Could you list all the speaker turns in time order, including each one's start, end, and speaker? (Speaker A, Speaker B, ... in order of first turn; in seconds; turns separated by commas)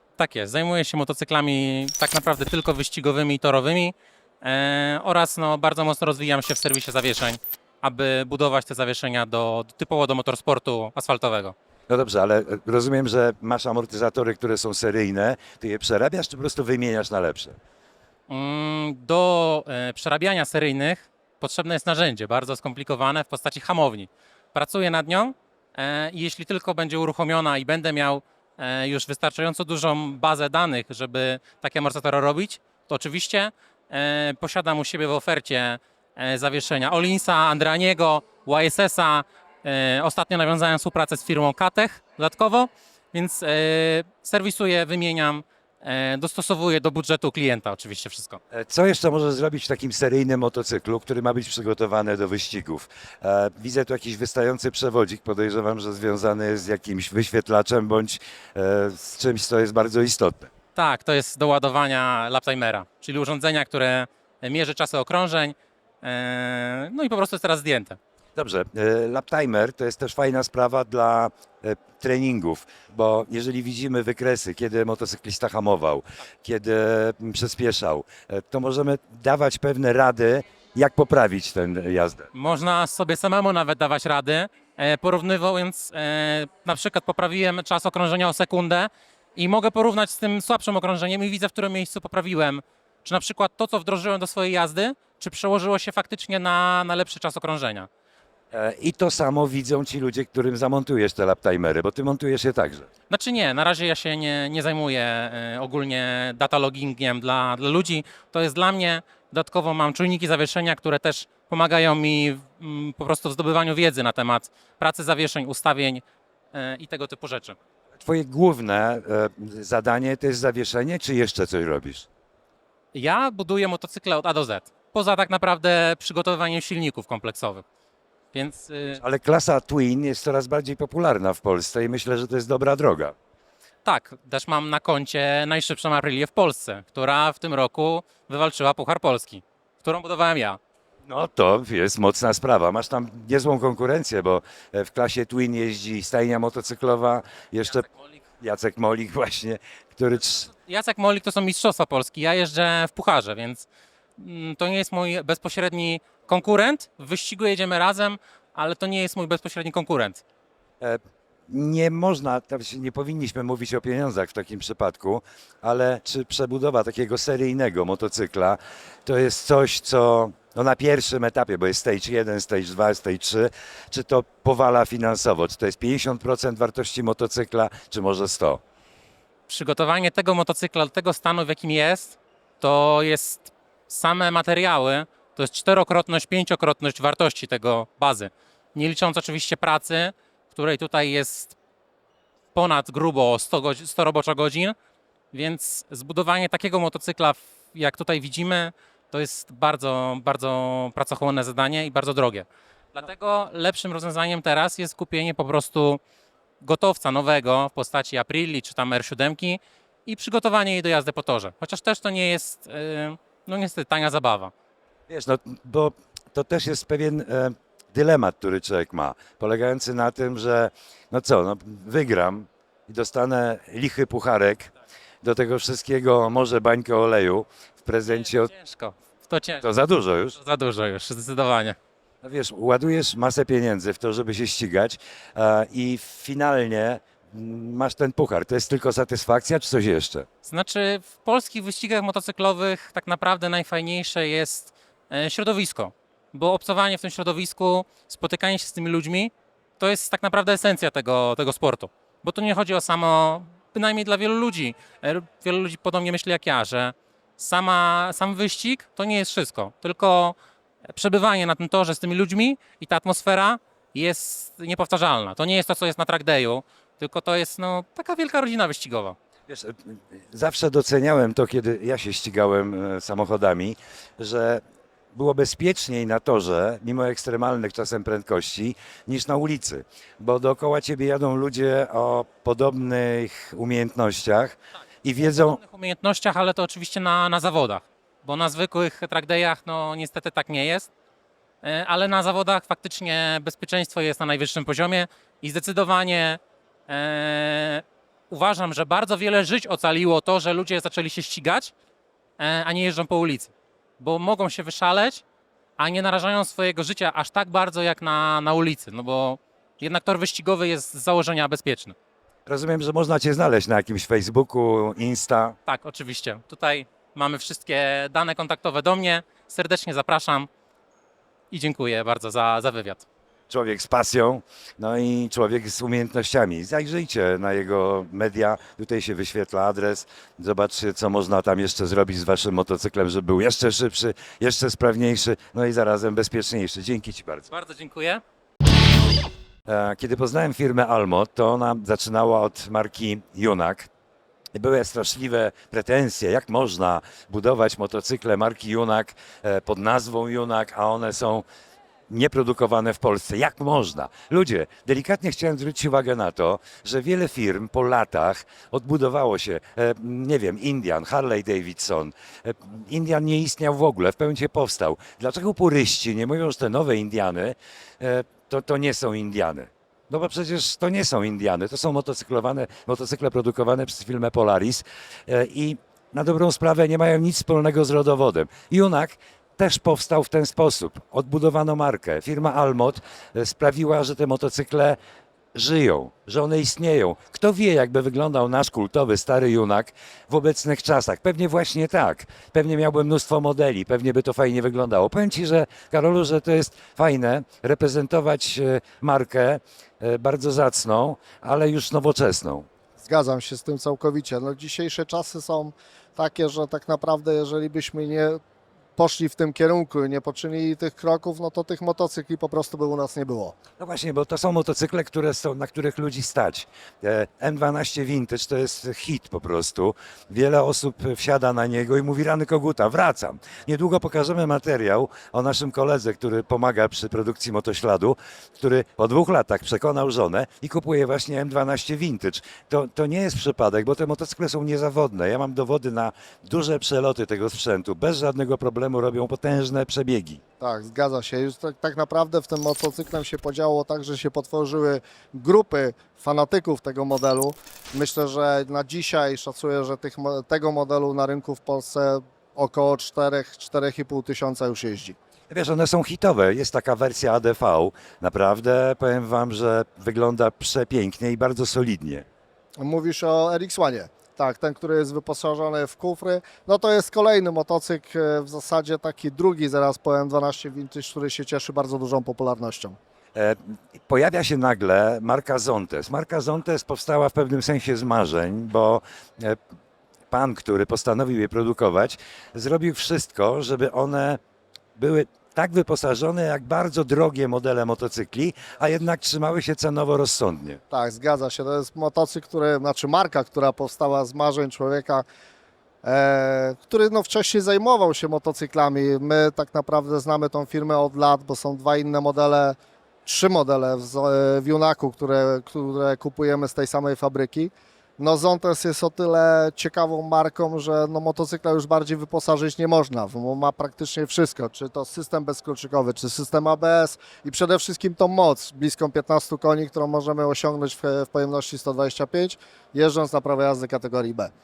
Speaker A: 0.2-11.6, Speaker B: 11.9-17.6, Speaker A: 18.3-48.4, Speaker B: 48.5-60.5, Speaker A: 60.8-68.0, Speaker B: 68.4-82.3, Speaker A: 82.3-97.9, Speaker B: 98.5-102.9, Speaker A: 103.1-117.6, Speaker B: 118.0-122.1, Speaker A: 122.9-127.6, Speaker A: 128.3-129.0, Speaker B: 129.0-133.1, Speaker A: 133.8-140.6, Speaker B: 141.0-150.5, Speaker A: 150.5-153.7, Speaker A: 154.2-160.2, Speaker B: 160.8-178.6, Speaker A: 179.5-191.6, Speaker A: 192.5-194.8, Speaker A: 195.3-206.0, Speaker A: 206.6-214.5, Speaker B: 215.1-224.7, Speaker B: 225.2-228.5, Speaker A: 228.1-229.7, Speaker B: 229.6-230.4, Speaker A: 230.3-231.8, Speaker B: 232.2-240.3, Speaker A: 240.4-260.4, Speaker A: 260.9-269.2, Speaker B: 269.5-274.6, Speaker B: 275.1-285.6, Speaker A: 285.3-290.9, Speaker A: 291.6-301.7, Speaker A: 302.4-305.2, Speaker A: 305.8-311.9, Speaker B: 312.5-315.6, Speaker A: 315.7-320.5, Speaker A: 321.5-323.1, Speaker B: 323.5-337.5, Speaker A: 337.5-338.2, Speaker B: 339.7-343.9, Speaker B: 344.5-351.5, Speaker B: 352.1-385.0, Speaker B: 385.5-402.7, Speaker C: 403.0-408.4, Speaker C: 409.0-413.6, Speaker B: 413.8-440.4, Speaker C: 440.6-455.2, Speaker B: 455.5-462.3, Speaker C: 462.8-473.0, Speaker B: 473.4-479.6, Speaker B: 480.3-484.4, Speaker B: 485.0-490.8, Speaker C: 490.9-495.2, Speaker C: 496.0-524.5